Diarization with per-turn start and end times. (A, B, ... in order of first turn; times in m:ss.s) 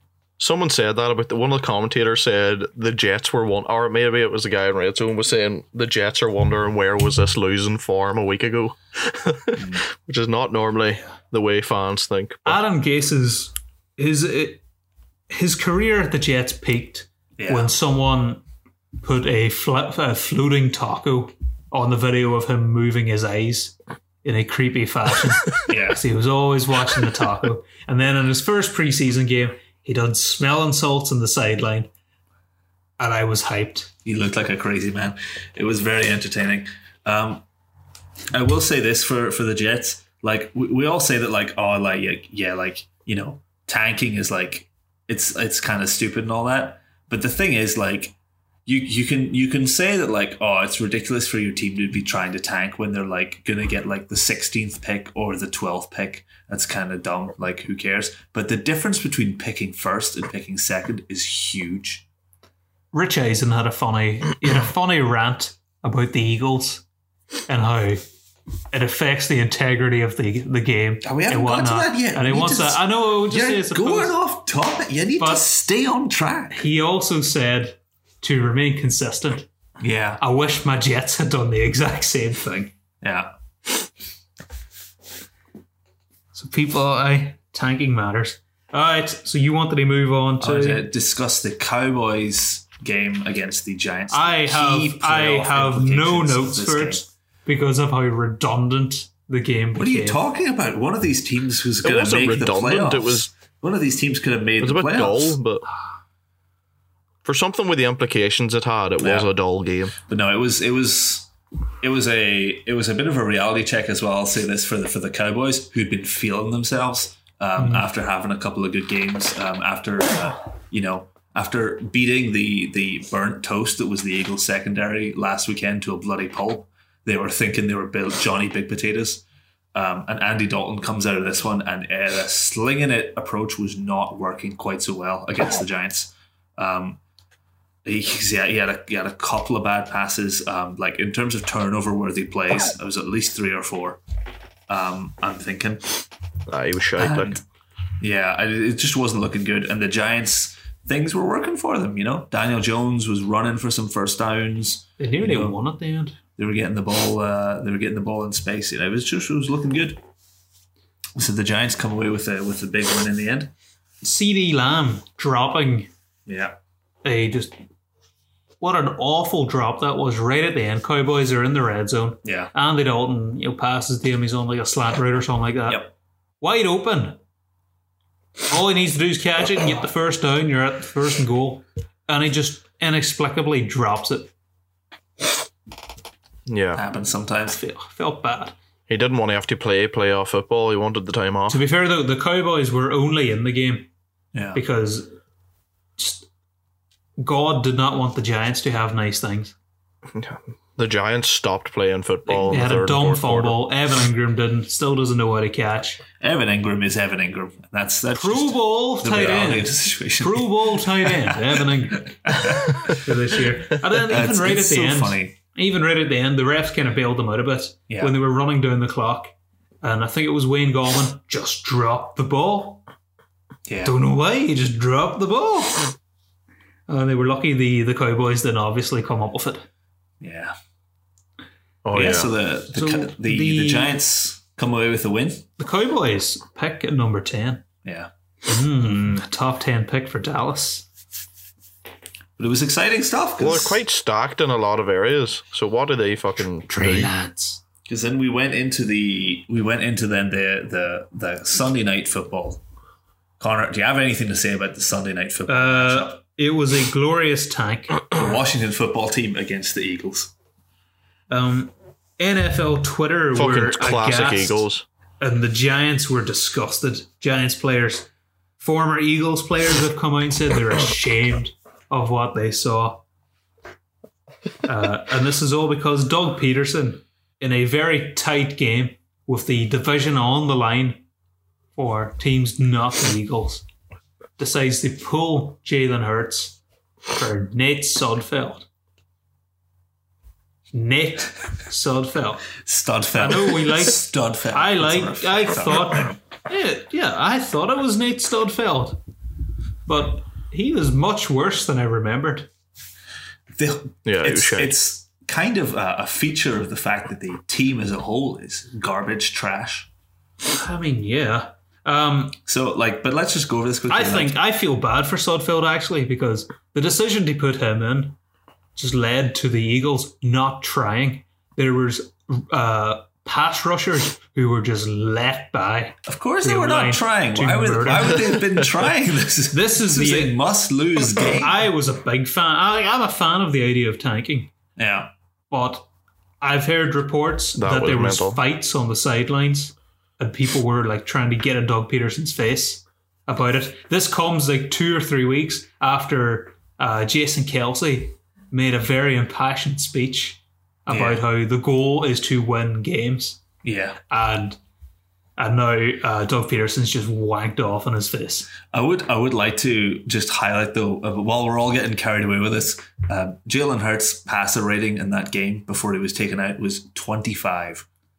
0:00.4-0:12.6 A
0:09.6-0:09.8 B
0:12.4-0:14.6 C
0:15.3-0:18.4 C
0:17.4-0:17.7 B
0:19.0-0:31.9 C
0:25.7-0:26.0 B
0:33.0-0:33.9 C
0:34.0-0:37.4 B
0:38.3-0:48.1 B
0:48.6-1:02.0 B
1:02.9-1:06.8 C
1:07.5-1:08.0 C
1:08.7-1:14.1 C
1:11.0-1:16.6 B
1:15.2-1:15.4 C
1:16.6-1:19.5 C
1:19.8-1:20.2 B
1:20.2-1:22.7 C
1:23.0-1:23.3 B
1:26.3-1:30.8 C
1:30.4-1:37.0 B
1:34.1-1:40.2 C
1:39.8-1:45.4 B
1:41.8-1:43.3 A
1:44.6-1:45.6 A
1:47.2-1:49.9 A
1:49.0-1:49.3 B
1:50.0-1:51.3 B
1:51.8-2:17.0 B
1:57.6-1:57.9 C
2:17.8-2:24.0 B
2:24.7-2:26.0 B
2:26.5-2:27.4 A
2:27.0-2:27.4 B
2:28.0-2:35.6 B
2:35.0-2:36.2 C
2:36.4-2:40.0 B
2:41.2-2:43.5 B
2:44.0-2:45.9 C
2:46.3-2:46.6 B
2:47.0-2:47.5 C
2:48.6-2:57.2 C
2:52.2-2:52.5 B
2:58.5-3:04.3 C
3:06.5-3:06.8 A
3:06.7-3:07.6 B
3:07.5-3:08.5 C
3:08.9-3:11.6 A
3:11.5-3:13.9 C
3:14.3-3:14.6 B
3:14.5-3:15.1 C
3:16.0-3:16.3 C
3:17.2-3:19.5 C
3:20.1-3:23.6 A
3:22.3-3:26.0 C
3:26.2-3:31.6 B
3:28.1-3:42.8 C
3:32.2-3:33.0 B
3:33.8-3:35.3 B
3:37.9-3:38.1 B
3:43.7-3:43.9 B
3:43.8-3:45.9 C
3:46.9-3:49.6 C
3:50.2-3:50.5 B
3:51.8-3:52.3 A
3:51.9-3:55.4 B
3:52.7-3:54.0 C
3:55.6-3:57.6 C
3:57.8-3:58.1 B
3:58.4-4:00.9 C
4:02.4-4:03.8 B
4:03.4-4:07.1 A
4:06.7-4:07.6 C
4:07.9-4:12.6 B
4:13.4-4:16.2 B
4:15.5-4:18.0 C
4:18.1-4:20.3 B
4:21.3-4:24.7 C
4:23.3-4:24.8 A
4:25.2-4:33.0 C
4:34.6-4:41.0 C
4:41.7-4:43.6 C
4:44.4-4:46.6 C
4:47.1-4:48.7 C
4:50.7-4:52.5 C
4:52.6-4:56.1 B
4:53.1-4:59.0 C
4:59.9-5:02.5 C
5:03.5-5:09.9 B
5:04.0-5:04.7 A
5:10.5-5:12.4 C
5:12.5-5:14.4 B
5:13.9-5:18.2 C
5:18.8-5:28.3 C
5:26.0-5:31.6 B
5:29.5-5:30.4 C
5:31.3-5:34.5 C
5:34.8-5:35.1 B
5:35.5-5:35.9 C
5:36.4-5:53.4 C
5:37.6-5:38.4 A
5:50.9-5:51.2 B
5:53.6-5:54.0 B
5:54.1-5:54.6 C
5:55.4-5:58.5 C
5:58.7-6:07.8 B